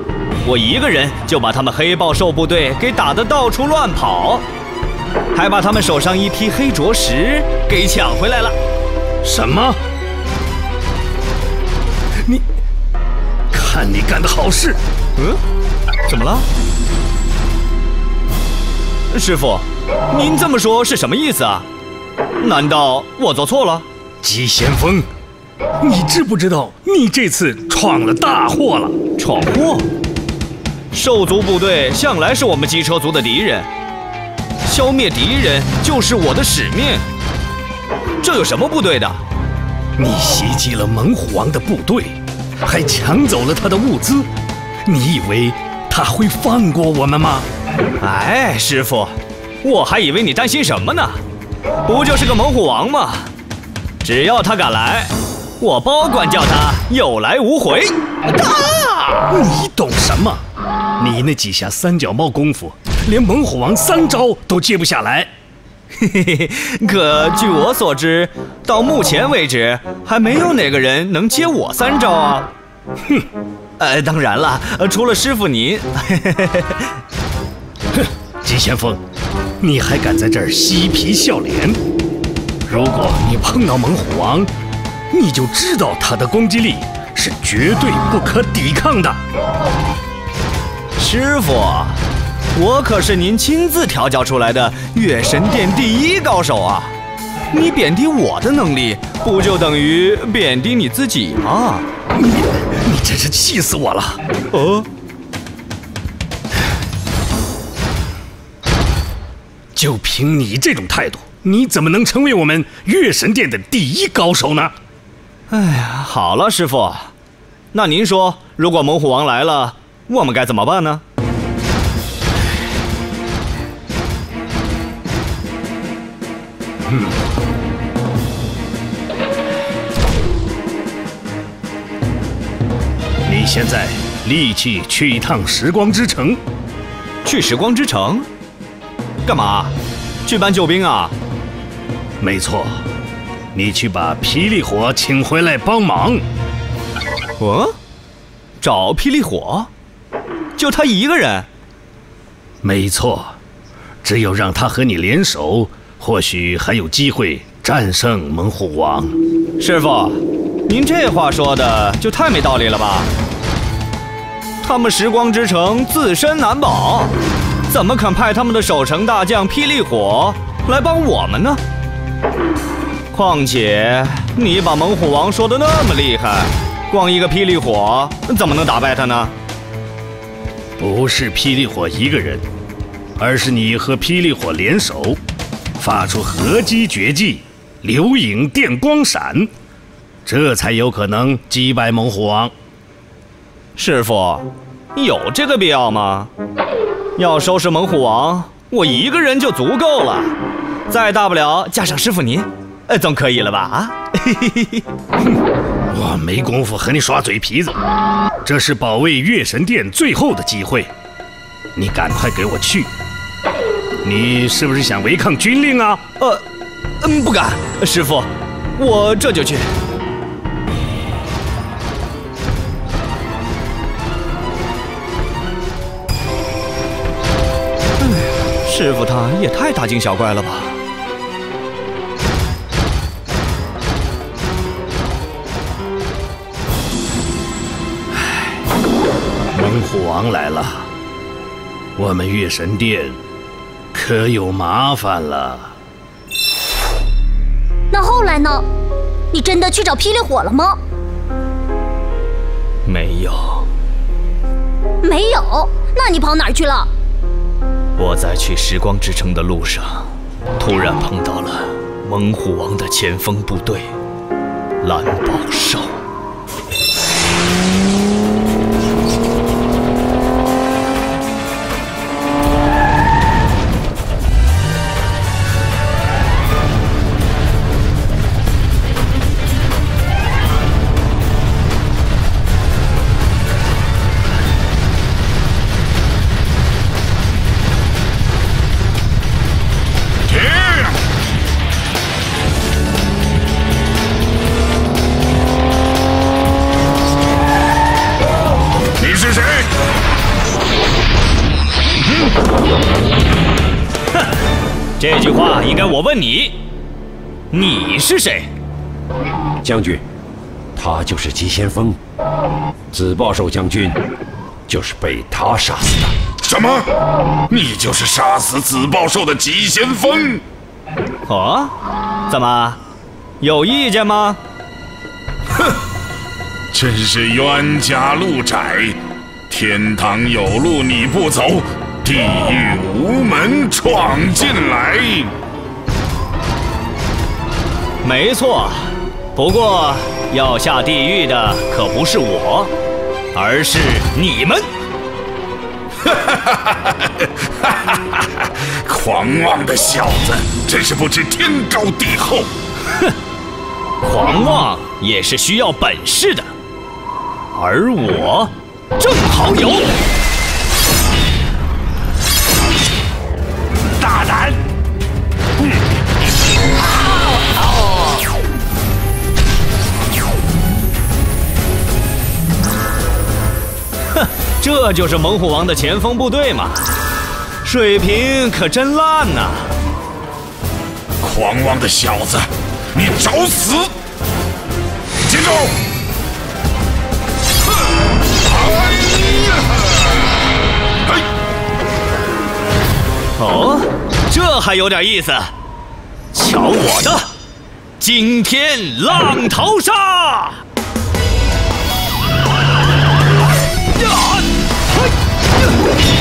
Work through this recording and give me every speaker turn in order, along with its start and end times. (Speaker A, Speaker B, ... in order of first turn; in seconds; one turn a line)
Speaker A: 0.4-4.4
Speaker A: 5.3-8.5
Speaker B: 9.2-9.8
Speaker B: 13.5-14.8
Speaker A: 16.1-16.4
Speaker A: 19.1-21.7
Speaker A: 22.4-23.8
Speaker B: 24.2-25.1
Speaker B: 25.8-28.9
Speaker A: 29.2-29.9
Speaker A: 30.9-33.7
Speaker A: 34.6-37.0
Speaker A: 38.2-39.2
Speaker B: 40.0-44.3
Speaker B: 44.9-47.5
Speaker A: 48.0-51.2
Speaker A: 51.9-53.3
Speaker A: 54.0-59.3
Speaker B: 59.3-60.4
Speaker B: 61.0-65.3
Speaker A: 66.0-72.5
Speaker A: 73.8-76.9
Speaker B: 77.9-79.0
Speaker B: 79.6-81.8
Speaker B: 82.7-84.5
Speaker B: 85.1-89.2
Speaker A: 91.0-92.0
Speaker A: 92.5-96.9
Speaker A: 97.5-101.8
Speaker B: 102.2-104.2
Speaker A: 104.5-104.9
Speaker B: 109.7-114.7
Speaker A: 115.5-117.1
Speaker A: 117.7-121.0
Speaker B: 126.9-127.2
Speaker B: 133.2-136.4
Speaker A: 137.2-138.3
Speaker A: 139.2-139.7
Speaker A: 140.2-141.1
Speaker B: 142.2-142.8
Speaker B: 143.5-146.2
Speaker A: 147.4-147.7
Speaker A: 148.6-149.7
Speaker A: 150.6-151.5
Speaker B: 152.6-153.3
Speaker B: 154.0-159.2
Speaker A: 159.6-163.1
Speaker A: 164.6-167.1
Speaker A: 167.7-171.6
Speaker A: 173.1-179.3
Speaker B: 180.8-182.4
Speaker B: 183.2-185.2
Speaker B: 185.8-189.5
Speaker B: 190.2-192.5
Speaker A: 193.8-196.3
Speaker A: 197.2-200.3
Speaker A: 200.9-204.8
Speaker B: 205.9-207.8
Speaker B: 208.4-210.9
Speaker B: 211.8-212.9
Speaker B: 214.0-216.0
Speaker A: 217.0-219.7
Speaker A: 228.0-230.8
Speaker B: 238.1-238.6
Speaker B: 239.5-240.9
Speaker B: 241.9-243.2
Speaker B: 243.9-245.7
Speaker C: 247.9-248.6
Speaker C: 249.3-250.8
Speaker A: 252.8-253.7
Speaker C: 255.0-256.9
Speaker A: 258.0-263.9
Speaker A: 264.8-266.0
Speaker D: 290.2-291.0
Speaker D: 299.0-299.7
Speaker A: 305.0-306.6
Speaker A: 307.5-308.5
Speaker E: 309.6-310.0
Speaker E: 310.8-312.0
Speaker E: 312.9-314.0
Speaker E: 314.7-316.1
Speaker D: 316.4-316.9
Speaker D: 317.5-320.4
Speaker A: 321.3-321.7
Speaker A: 322.3-322.8
Speaker A: 323.4-324.4
Speaker D: 326.7-329.0
Speaker D: 329.5-335.3
Speaker A: 338.0-342.7
Speaker A: 343.3-344.7
Speaker D: 346.0-352.5
Speaker A: 354.0-356.5
Speaker A: 357.5-360.0
Speaker E: 364.0-364.6
Speaker A: 374.1-376.8
Speaker A: 377.6-379.7
Speaker D: 381.2-383.9
Speaker D: 385.2-385.8
Speaker D: 388.4-390.0
Speaker A: 393.4-395.5
Speaker A: 396.3-397.3
Speaker A: 398.0-400.6
Speaker A: 403.9-405.8